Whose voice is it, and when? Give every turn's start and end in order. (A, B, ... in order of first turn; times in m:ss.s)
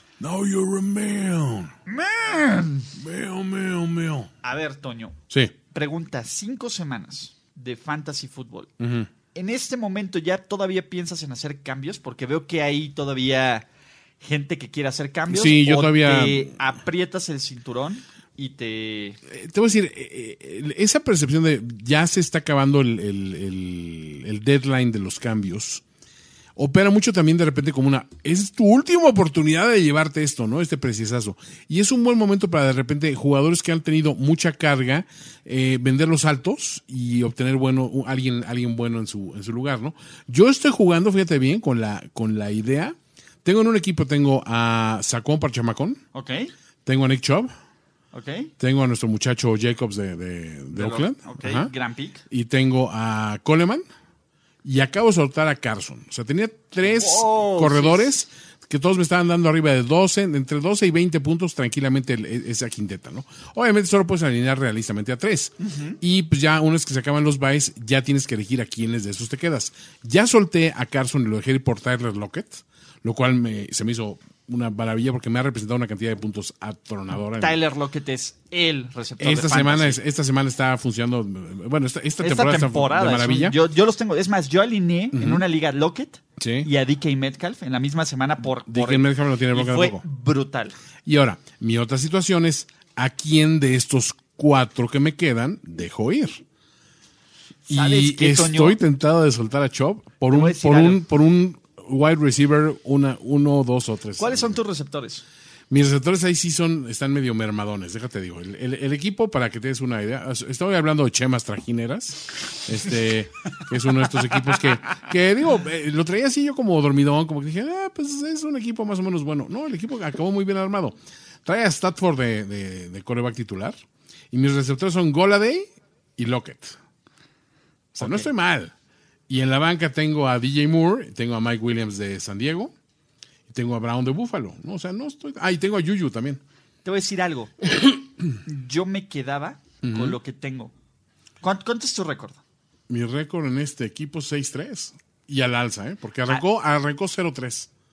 0:00.2-0:01.7 A
0:01.9-0:02.9 B
0:03.0-0:04.3 A
0:04.4-0:05.2 B
0:05.7-0:08.7 B
0:08.8-0:09.1 A
0:09.4-0:13.7 B
0:14.2-0:19.2 B
0:15.3-0:16.6 A
0:19.3-0:25.8 A
0:26.6-0:46.0 A
0:46.1-0:46.5 B
0:46.9-0:47.5 A
0:48.1-0:48.5 B
0:48.6-0:51.7 A
0:50.7-0:52.2 B
0:52.3-0:53.8 A
0:54.6-1:17.6 A
0:56.8-0:58.1 B
1:05.6-1:06.0 B
1:17.4-1:20.0 B
1:19.2-1:23.6 A
1:22.2-1:30.8 B
1:25.1-1:25.4 A
1:26.4-1:26.7 A
1:28.6-1:30.0 A
1:31.1-1:36.4 A
1:37.7-1:38.8 B
1:37.7-1:44.6 A
1:40.3-1:41.0 B
1:44.2-1:45.2 B
1:45.7-2:03.8 A
2:04.3-2:06.8 A
2:07.9-2:08.3 B
2:08.0-2:08.7 A
2:09.3-2:12.7 A
2:13.5-2:16.4 A
2:16.8-2:17.6 B
2:18.4-2:20.7 B
2:19.8-2:20.2 A
2:21.4-2:22.4 B
2:22.9-2:27.7 A